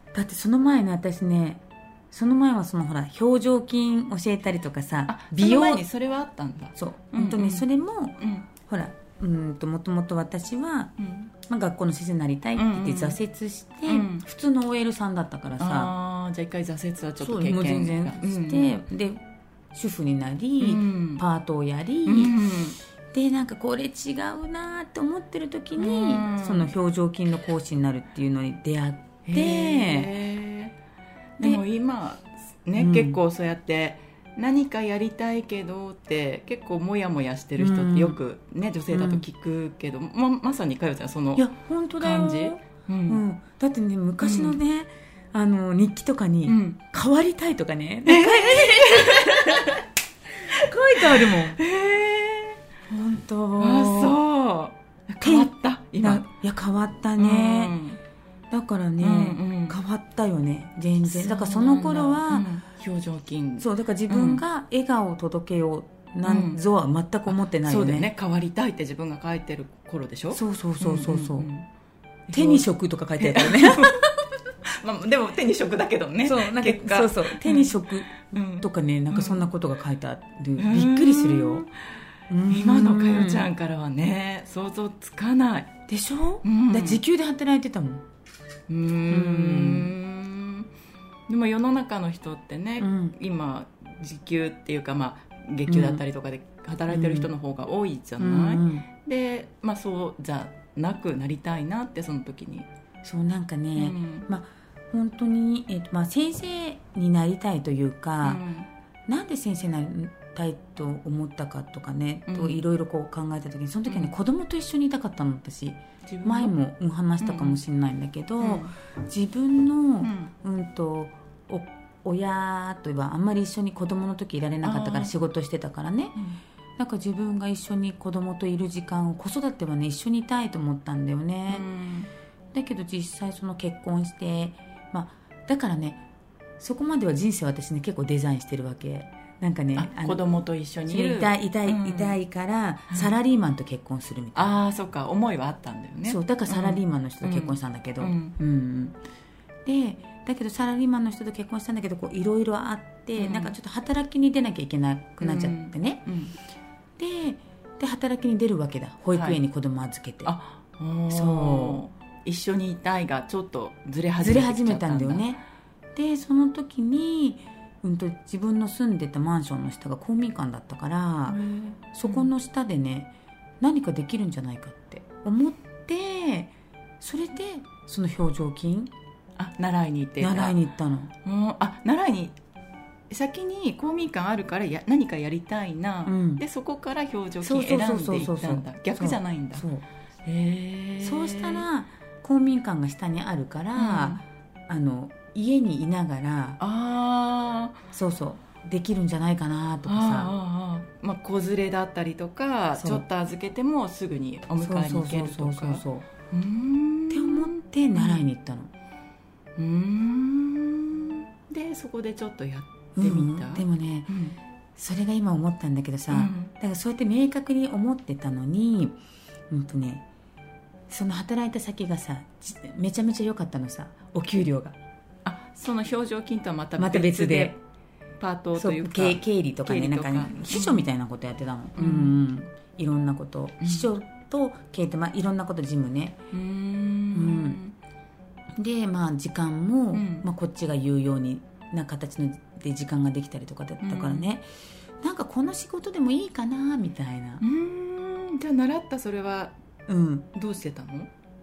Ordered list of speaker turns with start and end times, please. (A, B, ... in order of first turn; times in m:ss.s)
0:00.1-0:05.8 A
0:05.1-0:07.7 B
0:06.8-0:15.9 A
0:08.2-0:08.5 B
0:11.0-0:11.3 B
0:12.6-0:13.2 B
0:13.9-0:14.2 B
0:15.6-0:18.8 B
0:17.2-0:22.4 A
0:20.6-0:21.2 B
0:22.1-0:22.8 B
0:23.1-0:30.1 A
0:25.8-0:26.7 B
0:29.2-0:30.7 B
0:31.4-0:41.5 B
0:32.8-0:33.2 A
0:37.6-0:38.2 A
0:38.9-0:39.2 A
0:41.4-0:49.8 A
0:42.0-0:43.2 B
0:44.2-0:44.6 B
0:46.5-0:46.8 B
0:48.0-0:49.8 B
0:50.5-0:51.6 A
0:50.9-0:52.6 B
0:52.9-0:54.2 A
0:53.6-0:56.3 B
0:55.2-0:57.8 A
0:57.2-0:58.0 B
0:58.5-1:02.5 A
0:59.0-0:59.8 B
1:01.1-1:04.4 B
1:03.6-1:08.1 A
1:06.2-1:06.6 B
1:07.3-1:11.7 B
1:10.3-1:11.5 A
1:12.3-1:12.7 B
1:12.3-1:14.0 A
1:13.2-1:14.1 B
1:14.7-1:19.5 B
1:16.2-1:21.7 A
1:20.6-1:21.7 B
1:22.3-1:23.5 A
1:22.4-1:25.7 B
1:25.9-1:28.0 A
1:26.4-1:27.0 B
1:28.7-1:30.7 B
1:29.1-1:29.9 A
1:31.3-1:42.7 B
1:32.8-1:33.2 A
1:35.7-1:36.0 A
1:36.9-1:37.3 A
1:38.2-1:38.9 A
1:43.0-1:48.4 A
1:43.8-1:44.3 B
1:48.2-1:48.7 B
1:49.1-2:06.2 A
1:52.3-1:52.6 B
1:53.9-1:54.1 B
1:56.1-1:56.6 B
1:57.2-1:57.6 B
1:58.4-1:58.7 B
2:00.0-2:00.3 B
2:04.6-2:05.1 B
2:06.8-2:11.7 A
2:11.5-2:12.1 B
2:12.5-2:16.0 A
2:16.6-2:20.2 A
2:19.8-2:22.2 B
2:20.9-2:24.6 A
2:24.4-2:28.4 B
2:26.1-2:29.0 A
2:29.6-2:36.0 A
2:33.2-2:33.6 B
2:35.2-2:36.3 B
2:37.0-2:40.3 A
2:39.1-2:39.4 B
2:40.2-2:45.3 B
2:41.1-2:41.8 A
2:44.2-2:45.4 A
2:46.0-2:51.4 A
2:51.3-2:52.3 B
2:51.9-2:53.1 A
2:53.6-2:58.9 A
2:59.4-3:00.6 B
3:00.2-3:01.1 A
3:01.2-3:02.4 B
3:03.1-3:09.7 B
3:06.1-3:06.4 A
3:07.4-3:09.8 A
3:10.2-3:11.7 B
3:11.0-3:16.6 A
3:13.8-3:14.2 B
3:16.6-3:17.8 B
3:17.9-3:20.3 A
3:19.9-3:28.2 B
3:22.8-3:23.0 A
3:24.6-3:26.1 A
3:27.1-3:28.7 A
3:29.6-3:34.4 B
3:33.0-3:34.1 A
3:34.8-3:39.0 A
3:36.1-3:36.5 B
3:39.5-3:40.0 A
3:40.9-3:44.8 A
3:45.2-3:47.6 B
3:46.8-3:47.6 A
3:48.2-3:50.9 B
3:48.6-3:56.2 A
3:51.8-3:52.2 B
3:53.6-3:53.9 B
3:56.3-3:57.8 B
3:57.1-3:57.6 A
3:58.6-4:04.5 A
3:59.9-4:00.2 B
4:03.8-4:04.3 B
4:05.0-4:07.4 A
4:07.4-4:09.5 B
4:09.9-4:10.3 A
4:10.3-4:11.1 B